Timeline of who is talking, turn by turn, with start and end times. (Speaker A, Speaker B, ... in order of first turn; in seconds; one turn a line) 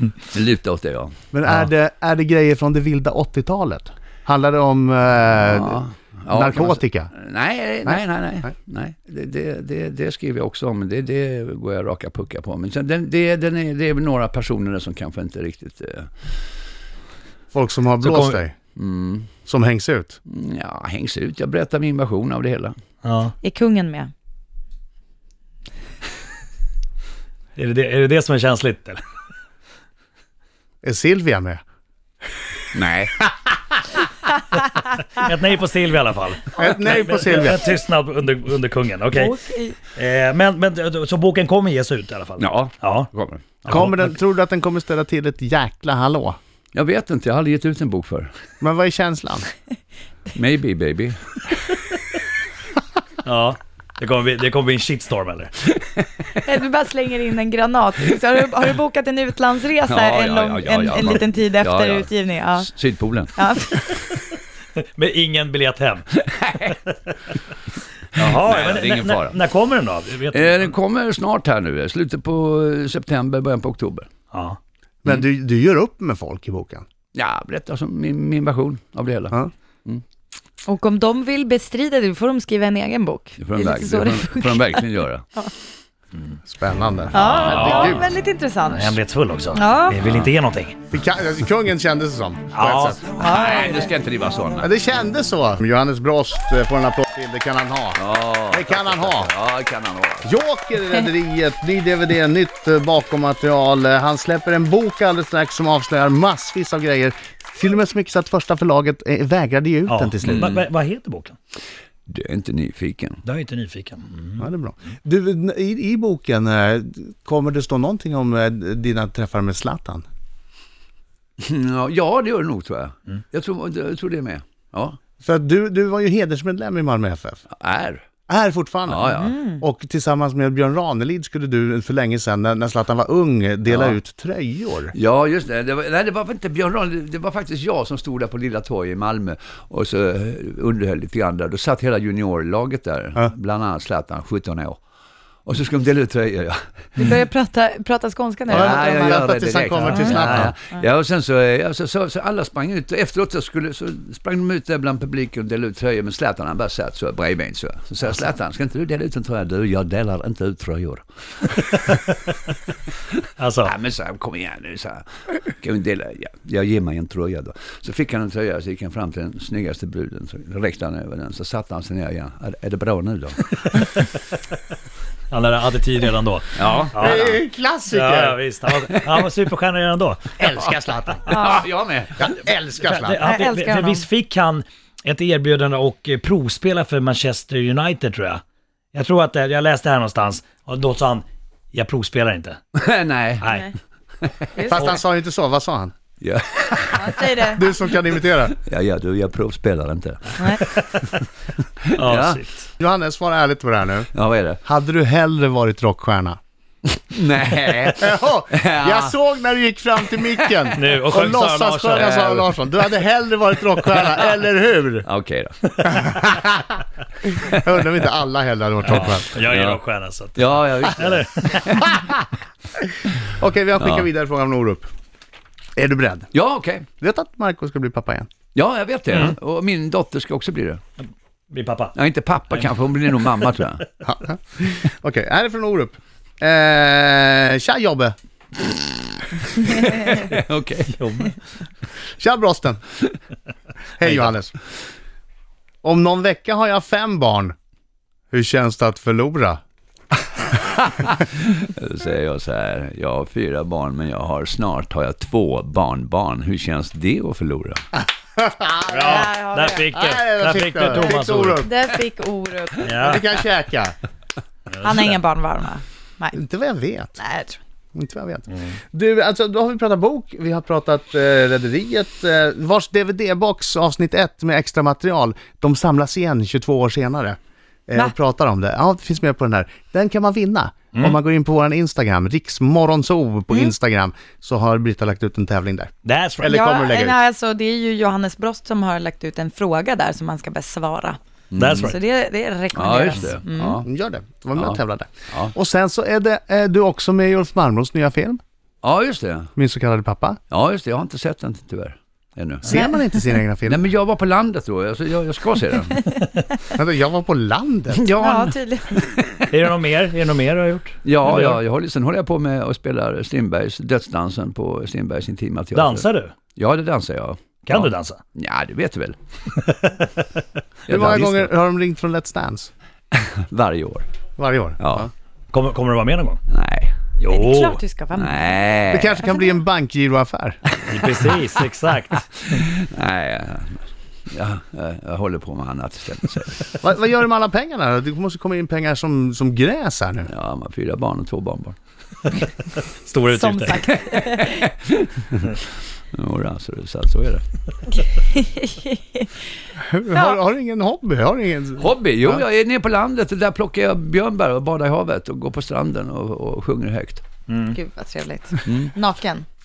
Speaker A: 0.2-1.1
Speaker B: 1.3-7.1
Speaker A: 5.4-16.3
Speaker B: 7.9-8.5
Speaker B: 17.5-18.6
Speaker C: 18.0-18.4
Speaker A: 18.8-19.3
Speaker B: 19.4-20.2
Speaker A: 20.3-22.8
Speaker C: 23.0-23.3
Speaker D: 23.4-24.1
Speaker C: 27.6-29.0
Speaker B: 30.8-31.6
Speaker A: 32.7-33.1
Speaker C: 35.1-39.3
Speaker B: 36.5-37.7
Speaker D: 39.1-39.8
Speaker C: 39.9-43.1
Speaker A: 42.4-43.6
Speaker C: 43.7-44.1
Speaker B: 43.7-46.4
Speaker A: 46.7-48.3
Speaker B: 48.6-49.5
Speaker A: 50.3-51.4
Speaker C: 53.2-55.5
Speaker A: 56.0-56.2
Speaker D: 56.4-62.7
Speaker A: 59.9-63.3
Speaker D: 63.4-64.0
Speaker C: 64.8-67.1
Speaker A: 66.1-66.8
Speaker A: 68.1-69.4
Speaker C: 68.2-70.7
Speaker A: 70.3-74.1
Speaker C: 74.3-74.6
Speaker B: 75.0-76.8
Speaker A: 77.1-80.0
Speaker D: 80.7-85.5
Speaker A: 83.4-85.2
Speaker B: 86.4-88.1
Speaker D: 87.1-89.0
Speaker C: 87.5-88.0
Speaker C: 88.7-90.8
Speaker D: 89.5-90.0
Speaker A: 90.0-90.3
Speaker B: 90.9-93.0
Speaker C: 92.5-93.2
Speaker D: 93.1-93.9
Speaker A: 93.2-94.7
Speaker B: 94.6-99.3
Speaker A: 97.9-100.3
Speaker B: 100.2-110.6
Speaker C: 109.9-111.3
Speaker A: 110.2-110.6
Speaker A: 112.1-113.2
Speaker C: 113.2-114.4
Speaker B: 114.4-120.0
Speaker A: 121.4-125.0
Speaker B: 125.2-127.4
Speaker A: 127.5-128.1
Speaker B: 128.3-134.9
Speaker A: 128.9-129.3
Speaker D: 129.2-129.6
Speaker A: 133.7-134.0
Speaker A: 134.9-144.8
Speaker A: 145.4-147.2
Speaker D: 147.0-149.2
Speaker A: 148.5-161.8
Speaker B: 148.5-150.5
Speaker C: 149.8-150.5
Speaker C: 161.8-162.3
Speaker A: 163.1-173.4
Speaker C: 163.4-163.7
Speaker C: 173.6-174.2
Speaker C: 175.3-177.4
Speaker A: 176.6-177.4
Speaker B: 177.0-178.4
Speaker C: 177.9-180.3
Speaker A: 178.8-179.2
Speaker B: 180.4-181.5
Speaker A: 181.3-182.3
Speaker D: 181.3-181.6
Speaker B: 182.2-183.3
Speaker C: 182.8-188.4
Speaker D: 183.2-184.1
Speaker C: 188.9-192.6
Speaker A: 192.7-193.6
Speaker D: 194.6-194.9
Speaker B: 194.7-195.9
Speaker A: 196.2-197.2
Speaker D: 196.9-197.7
Speaker B: 197.6-198.6
Speaker A: 198.5-201.0
Speaker A: 201.8-202.4
Speaker C: 201.9-202.7
Speaker B: 202.8-204.1
Speaker A: 204.1-204.6
Speaker B: 204.6-206.4
Speaker A: 206.9-209.2
Speaker B: 207.9-215.1
Speaker A: 210.4-210.7
Speaker C: 210.8-212.2
Speaker A: 211.9-212.6
Speaker A: 215.0-216.2
Speaker B: 215.8-216.8
Speaker B: 217.3-219.3
Speaker C: 218.8-221.8
Speaker A: 218.9-219.8
Speaker A: 220.3-222.0
Speaker B: 223.2-224.9
Speaker A: 223.8-224.1
Speaker B: 225.8-226.3
Speaker A: 226.3-226.8
Speaker B: 227.0-228.3
Speaker A: 228.6-230.8
Speaker C: 231.5-231.9
Speaker A: 231.9-233.8
Speaker B: 234.0-238.2
Speaker A: 239.6-241.3
Speaker C: 240.9-241.3
Speaker B: 242.2-242.8
Speaker B: 244.0-244.5
Speaker B: 245.8-247.6
Speaker B: 248.3-249.6
Speaker A: 250.6-257.8
Speaker B: 258.4-259.3
Speaker C: 258.9-261.6
Speaker D: 259.0-259.9
Speaker B: 259.9-261.7
Speaker D: 260.9-263.2
Speaker C: 262.8-263.2
Speaker B: 263.0-263.9
Speaker D: 264.8-266.4
Speaker B: 266.3-267.2
Speaker D: 267.2-267.6
Speaker B: 267.9-287.2
Speaker C: 286.1-286.6
Speaker D: 286.4-291.2
Speaker A: 291.5-291.9
Speaker C: 291.6-291.9
Speaker D: 291.9-293.8
Speaker A: 292.7-293.8
Speaker B: 293.6-298.4
Speaker A: 298.8-299.5
Speaker B: 299.6-300.4
Speaker A: 300.5-302.8
Speaker B: 302.6-303.8
Speaker D: 302.7-303.3
Speaker A: 303.6-306.0
Speaker B: 306.7-308.1
Speaker A: 307.9-309.4
Speaker D: 308.2-309.1
Speaker C: 309.5-311.6
Speaker A: 311.1-319.2
Speaker C: 315.7-316.3
Speaker C: 317.7-318.2
Speaker C: 319.6-320.2
Speaker A: 320.9-321.5
Speaker B: 320.9-322.7
Speaker A: 323.1-324.1
Speaker B: 324.4-325.1
Speaker A: 324.8-325.1
Speaker C: 325.5-326.4
Speaker A: 326.5-326.9
Speaker D: 327.2-329.6
Speaker C: 327.3-327.8
Speaker A: 328.1-329.2
Speaker B: 328.9-330.6
Speaker C: 330.9-332.3
Speaker A: 330.9-331.2
Speaker A: 332.4-336.8
Speaker B: 336.8-340.3
Speaker A: 340.3-341.8
Speaker C: 342.8-343.8
Speaker D: 343.3-344.6
Speaker A: 343.9-347.4
Speaker D: 348.0-349.3
Speaker B: 349.8-352.4
Speaker D: 350.1-350.4
Speaker A: 351.8-357.2
Speaker C: 357.5-357.8
Speaker D: 357.6-359.4
Speaker A: 358.7-358.9